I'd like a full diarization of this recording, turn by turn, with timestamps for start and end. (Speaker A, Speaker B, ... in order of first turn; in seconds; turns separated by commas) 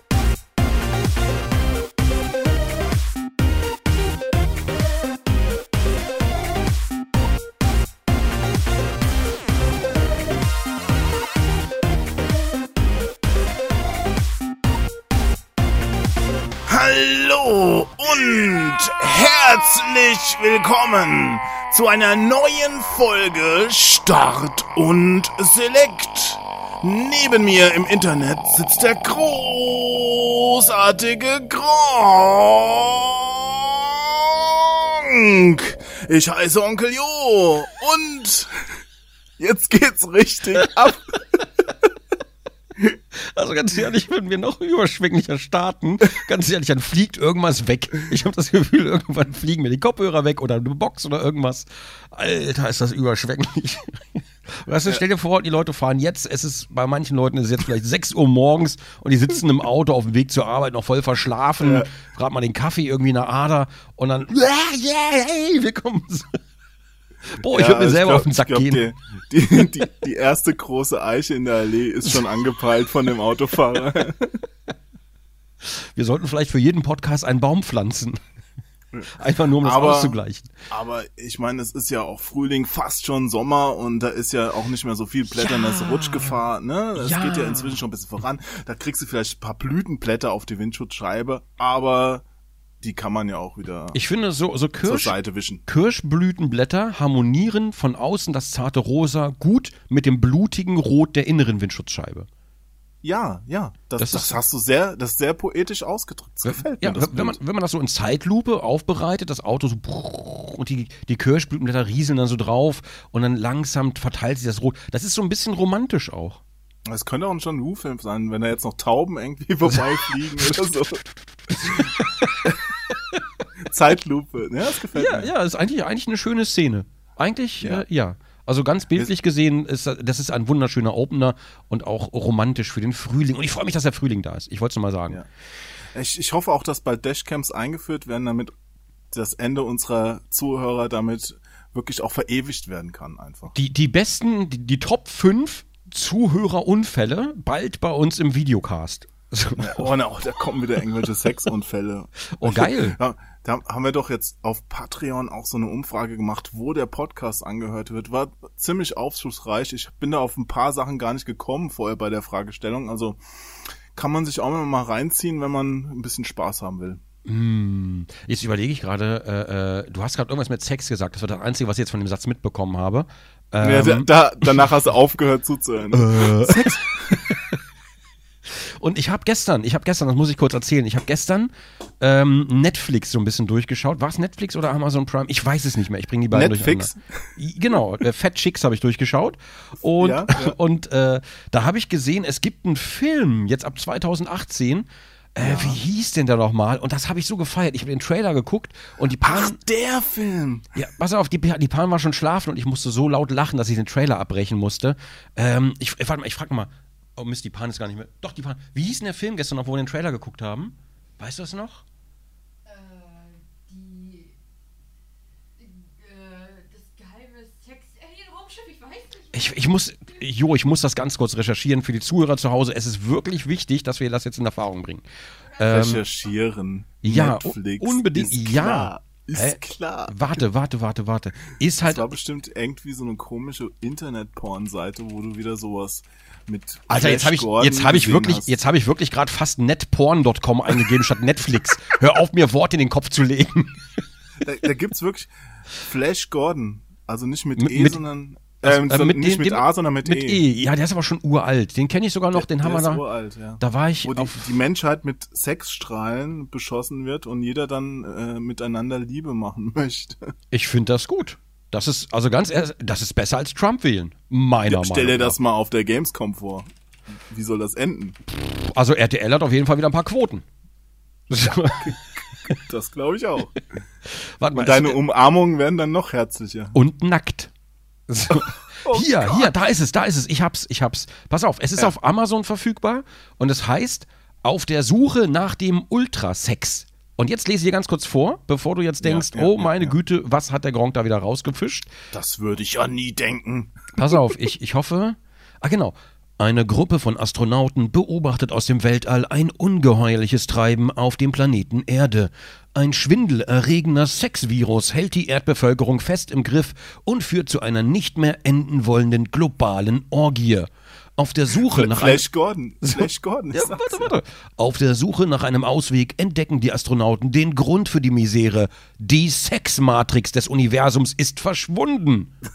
Speaker A: 16.7-38.8, Speaker A: 39.4-41.5, Speaker B: 43.1-66.4, Speaker A: 61.6-61.9, Speaker B: 67.3-68.9, Speaker A: 67.4-74.4, Speaker B: 75.6-78.2, Speaker B: 79.1-80.5, Speaker A: 79.6-80.2, Speaker A: 80.7-92.2, Speaker B: 85.3-86.4, Speaker B: 87.0-87.8, Speaker A: 92.8-94.0, Speaker B: 93.9-102.3, Speaker A: 94.8-95.6, Speaker A: 103.0-107.4, Speaker B: 104.0-104.4, Speaker B: 106.4-116.4, Speaker A: 116.9-121.0, Speaker B: 119.7-122.5, Speaker A: 121.6-122.7, Speaker A: 123.6-125.3, Speaker B: 124.9-135.2, Speaker A: 135.9-138.5, Speaker A: 139.1-143.6, Speaker B: 143.6-149.9, Speaker A: 149.6-167.0, Speaker B: 152.3-153.0, Speaker B: 167.2-174.7, Speaker A: 173.6-177.6, Speaker B: 175.9-177.4, Speaker B: 178.4-199.6, Speaker A: 186.3-187.4, Speaker A: 190.0-190.6, Speaker A: 195.4-195.8, Speaker A: 199.2-200.7, Speaker B: 200.8-211.8, Speaker C: 212.7-214.3, Speaker C: 215.6-219.5, Speaker B: 219.3-226.1, Speaker A: 225.7-230.3, Speaker B: 227.0-232.1, Speaker A: 231.8-238.5, Speaker B: 236.9-244.0, Speaker A: 244.4-250.4, Speaker B: 247.6-248.0, Speaker B: 248.6-253.0, Speaker A: 252.3-260.3, Speaker B: 253.6-254.5, Speaker B: 260.5-265.4, Speaker A: 264.7-268.2, Speaker B: 268.3-270.4, Speaker B: 271.3-272.0, Speaker A: 271.7-273.6, Speaker B: 274.1-275.0, Speaker A: 274.6-276.8, Speaker B: 276.7-277.5, Speaker B: 278.1-291.9, Speaker A: 278.5-279.6, Speaker A: 289.0-290.0, Speaker A: 292.1-294.3, Speaker B: 294.0-312.2, Speaker A: 311.6-314.1, Speaker B: 312.8-322.3